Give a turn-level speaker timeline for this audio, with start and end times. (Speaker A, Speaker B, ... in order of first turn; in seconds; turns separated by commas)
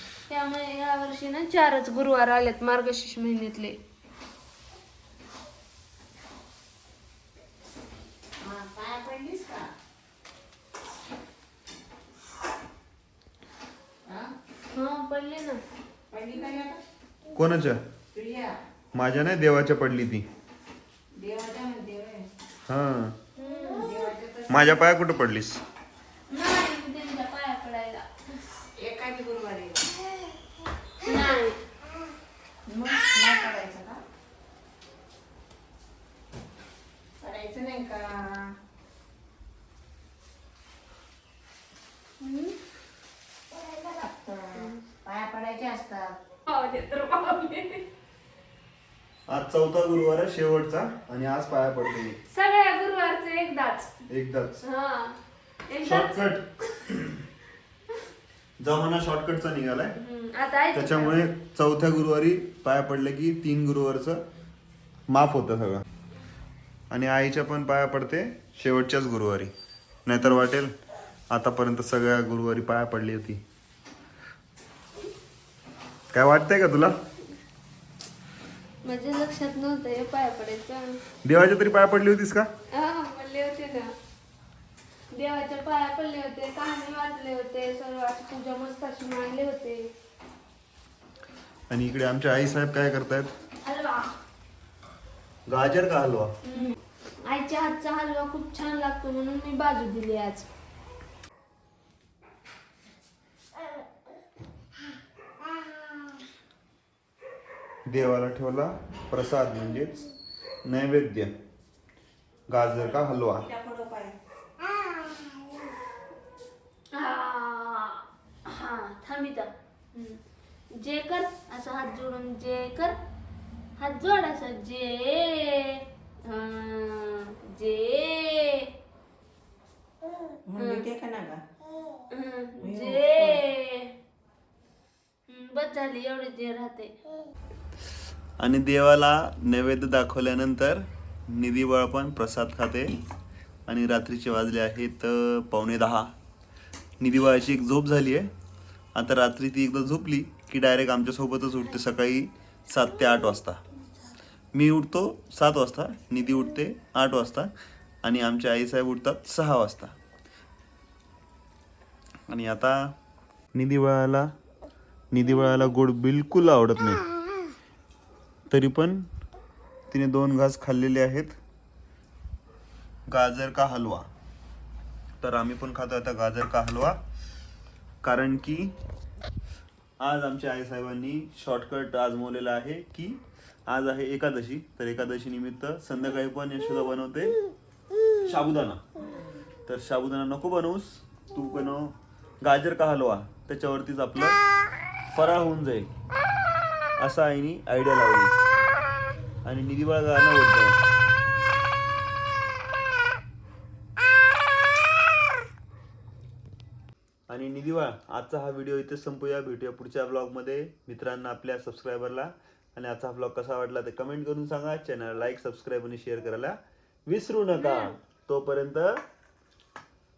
Speaker A: 0.3-3.7, Speaker B: 8.4-9.7, Speaker A: 14.7-15.6, Speaker B: 16.1-16.8, Speaker C: 17.4-17.8, Speaker B: 18.1-18.6, Speaker C: 18.9-20.2, Speaker B: 21.1-22.3, Speaker C: 22.7-23.1, Speaker A: 23.4-23.9, Speaker B: 23.8-24.8, Speaker C: 24.5-25.6, Speaker A: 26.3-28.1, Speaker B: 28.8-30.0, Speaker A: 31.0-31.6, Speaker B: 32.7-34.0, Speaker B: 37.2-38.5, Speaker A: 42.2-42.5, Speaker B: 43.6-46.2, Speaker A: 46.5-47.9, Speaker C: 49.3-52.2, Speaker A: 52.3-53.9, Speaker C: 54.1-54.6, Speaker A: 54.6-56.2, Speaker C: 55.8-57.2, Speaker C: 58.6-60.0, Speaker A: 60.0-61.2, Speaker C: 60.7-64.2, Speaker C: 65.1-65.8, Speaker C: 66.9-69.5, Speaker C: 70.0-70.7, Speaker C: 71.3-73.4, Speaker C: 76.1-76.9, Speaker A: 78.8-81.0, Speaker C: 81.2-82.5, Speaker A: 82.7-83.9, Speaker A: 85.1-89.8, Speaker C: 91.7-93.3, Speaker A: 93.6-94.1, Speaker C: 95.5-96.3, Speaker A: 96.4-100.5, Speaker C: 107.9-110.0, Speaker C: 110.6-111.3, Speaker C: 112.5-113.4, Speaker B: 112.7-114.1, Speaker A: 116.9-120.2, Speaker A: 120.7-122.9, Speaker A: 123.8-128.7, Speaker B: 130.5-131.4, Speaker A: 130.6-130.9, Speaker A: 132.1-133.9, Speaker B: 132.6-133.4, Speaker A: 135.3-136.9, Speaker C: 138.4-142.9, Speaker C: 143.7-146.1, Speaker C: 147.0-148.3, Speaker C: 148.9-153.6, Speaker C: 154.5-157.5, Speaker C: 158.0-159.9, Speaker C: 162.3-162.9, Speaker C: 163.5-164.3, Speaker C: 165.1-167.0, Speaker C: 168.5-169.1, Speaker C: 169.9-171.4, Speaker C: 173.1-174.1, Speaker C: 175.2-177.0, Speaker C: 178.0-178.7, Speaker C: 180.0-187.3, Speaker C: 188.2-188.8, Speaker B: 189.1-189.3, Speaker C: 189.7-194.4, Speaker C: 195.1-195.9, Speaker C: 197.0-198.3, Speaker C: 199.4-200.8, Speaker C: 207.3-219.0, Speaker A: 217.5-217.9